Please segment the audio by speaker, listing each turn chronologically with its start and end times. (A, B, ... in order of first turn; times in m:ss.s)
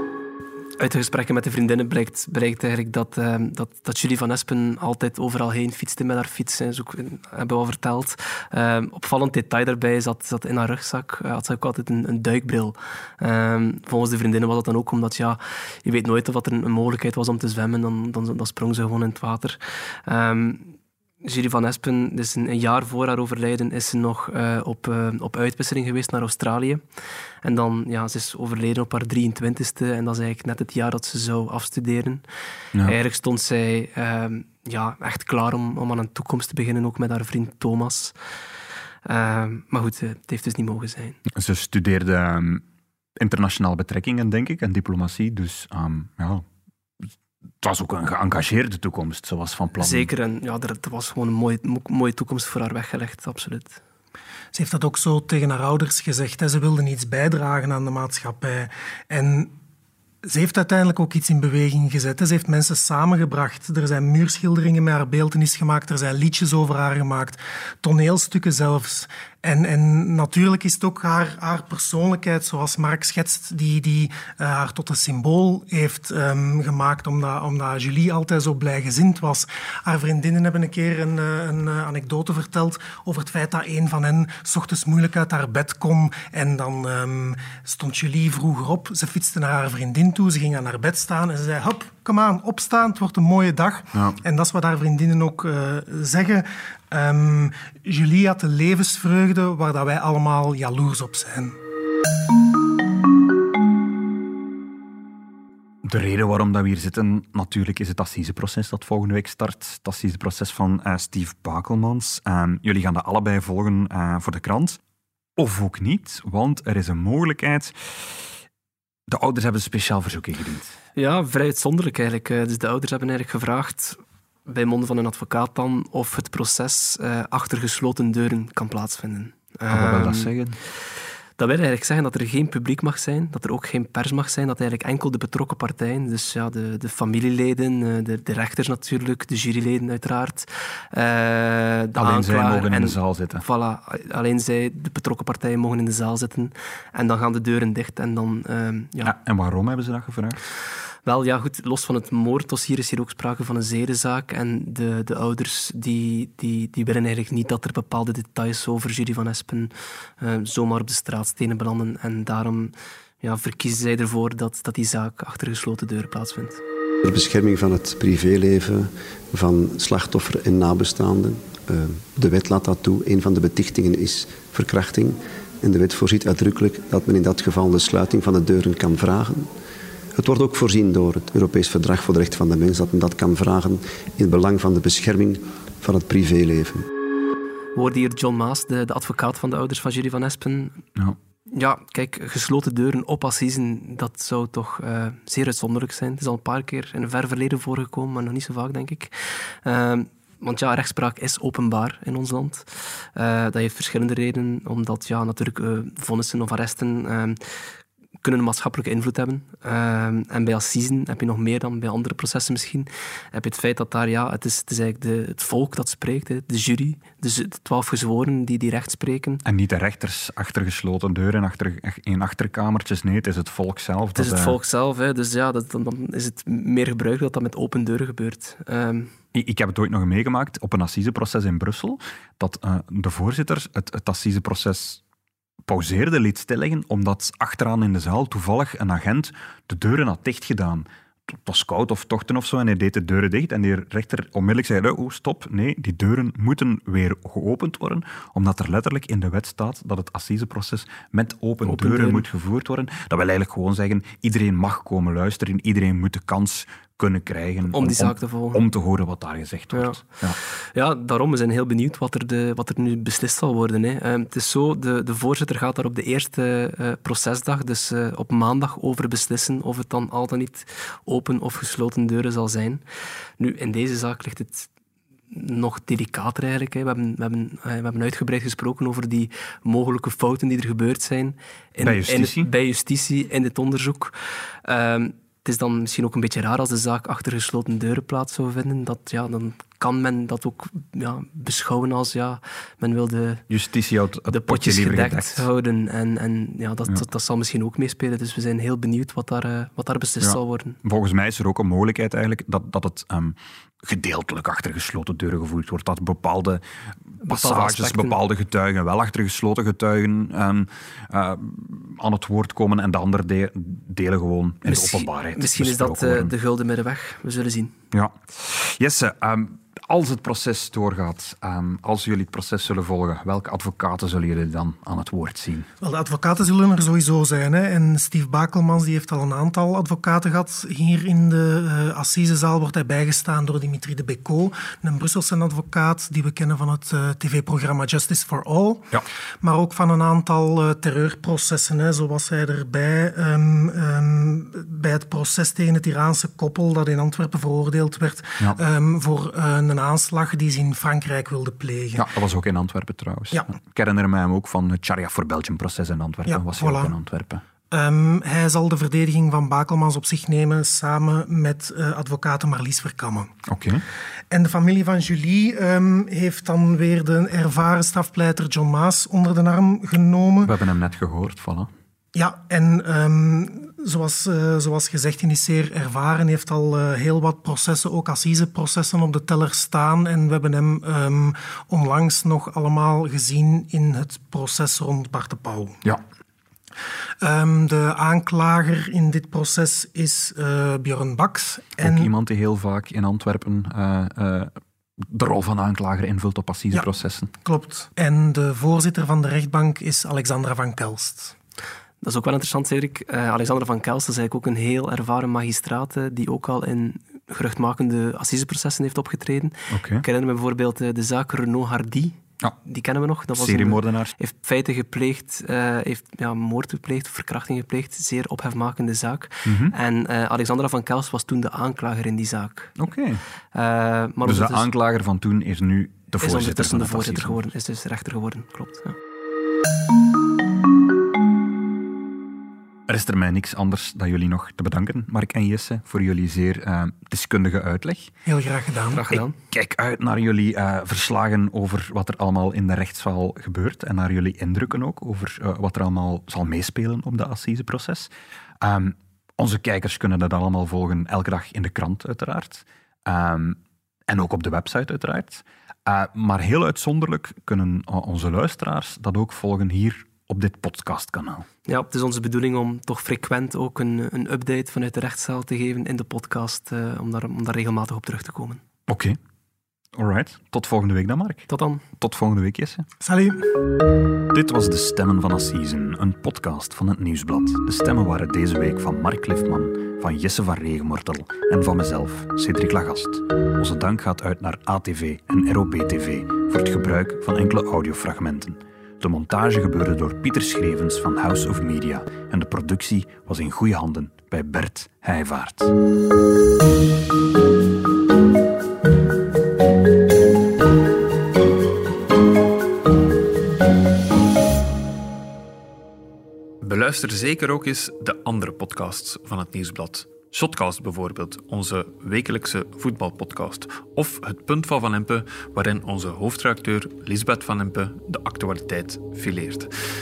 0:00.8-0:26.8 A
0:27.4-0:32.2 A
0:32.8-0:38.1 A
0:39.0-0:41.2 A
0:41.2-0:42.6 B
0:43.2-0:46.4 B
0:47.6-0:50.1 B
0:49.8-0:53.8 A
0:54.5-0:59.5 C
1:00.2-1:41.6 C
1:33.9-1:34.2 B
1:45.8-1:54.8 B
1:55.4-1:58.2 B
1:59.1-2:00.8 B
2:01.0-2:10.3 A
2:09.7-2:10.6 B
2:11.4-2:29.1 A
2:22.0-2:23.4 B
2:29.0-2:30.4 B
2:31.0-2:46.6 A
2:47.0-2:59.5 D
3:00.2-3:06.8 D
3:07.7-3:10.8 A
3:11.5-3:27.4 A
3:28.2-3:39.4 A
3:39.4-3:44.6 B
3:44.1-3:49.1 A
3:49.3-3:55.0 B
3:55.6-4:20.4 B
4:11.6-4:12.2 A
4:17.7-4:18.6 A
4:19.7-4:20.0 A
4:20.7-4:32.8 A
4:33.4-4:34.7 A
4:35.3-4:44.1 A
4:41.8-4:42.5 B
4:44.6-4:53.4 A
4:53.5-4:55.5 B
4:54.3-5:00.8 A
5:00.2-5:06.6 B
5:07.2-5:16.3 B
5:07.2-5:08.2 A
5:14.6-5:17.7 A
5:17.9-5:25.7 B
5:25.8-5:38.9 C
5:39.4-5:52.0 C
5:51.9-5:57.4 B
5:56.3-5:56.9 C
5:57.7-6:03.3 C
6:03.4-6:03.8 B
6:04.3-6:10.5 C
6:10.4-6:11.7 B
6:12.1-6:25.8 C
6:27.2-6:32.1 C
6:31.8-6:37.3 B
6:37.4-6:41.3 C
6:42.0-7:02.7 A
6:49.7-6:50.0 B
6:53.3-6:54.1 B
6:59.4-6:59.7 B
7:02.8-7:03.2 B
7:03.5-7:04.7 A
7:04.2-7:07.4 B
7:06.2-7:09.0 A
7:12.9-7:18.1 B
7:18.2-7:19.0 C
7:18.9-7:19.3 A
7:19.1-7:41.5 B
7:41.6-7:48.6 A
7:48.9-7:49.2 B
7:49.9-7:52.8 B
7:51.5-7:51.8 A
7:53.0-7:53.4 C
7:54.3-8:15.7 B
8:26.6-8:39.7 E